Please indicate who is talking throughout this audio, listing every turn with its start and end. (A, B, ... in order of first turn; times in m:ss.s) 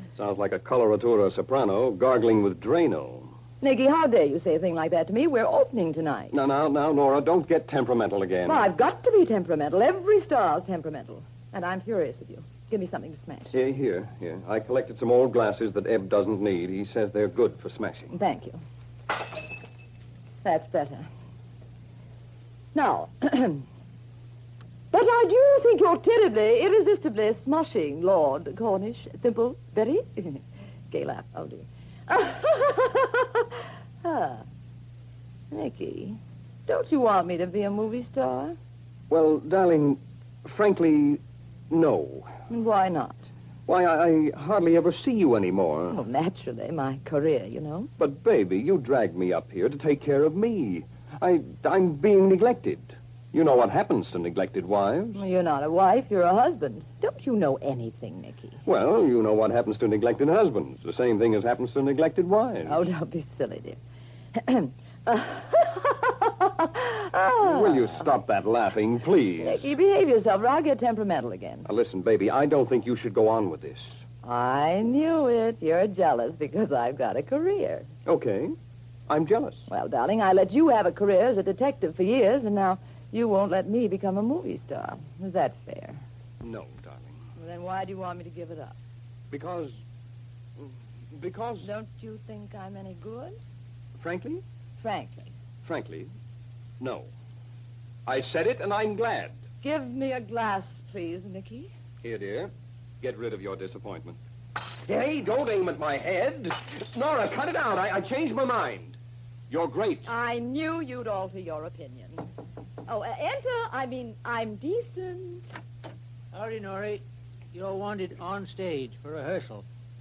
0:00.2-0:03.3 A
0:03.6-0:06.3 B
0:06.3-0:08.6 A
0:08.5-0:13.5 B
0:13.5-0:18.1 A
0:18.1-0:18.6 B
0:20.4-0:21.1 B
0:22.7-0:23.6 B
0:24.9-0:34.4 B
0:35.5-0:38.6 B
0:39.1-0:42.3 A
0:42.5-0:43.2 B
0:43.7-0:46.0 A
0:45.9-0:47.9 B
0:48.0-0:55.2 A
0:55.2-0:58.6 B
0:58.6-1:02.8 A
1:02.6-1:03.8 B
1:04.4-1:08.0 B
1:07.4-1:09.6 A
1:09.4-1:11.6 B
1:11.6-1:13.9 A
1:14.2-1:17.9 B
1:18.0-1:18.5 A
1:19.1-1:19.6 A
1:19.7-1:26.0 B
1:26.4-1:27.2 A
1:27.4-1:28.8 B
1:29.3-1:29.8 A
1:30.6-1:31.7 A
1:31.6-1:33.4 B
1:34.0-1:34.4 A
1:34.8-1:35.3 B
1:35.6-1:36.1 A
1:36.8-1:37.1 A
1:38.0-1:39.4 A
1:39.6-1:41.7 B
1:42.0-1:49.0 A
1:49.5-1:50.1 A
1:50.0-1:52.2 B
1:52.9-1:55.5 B
1:56.3-1:59.6 C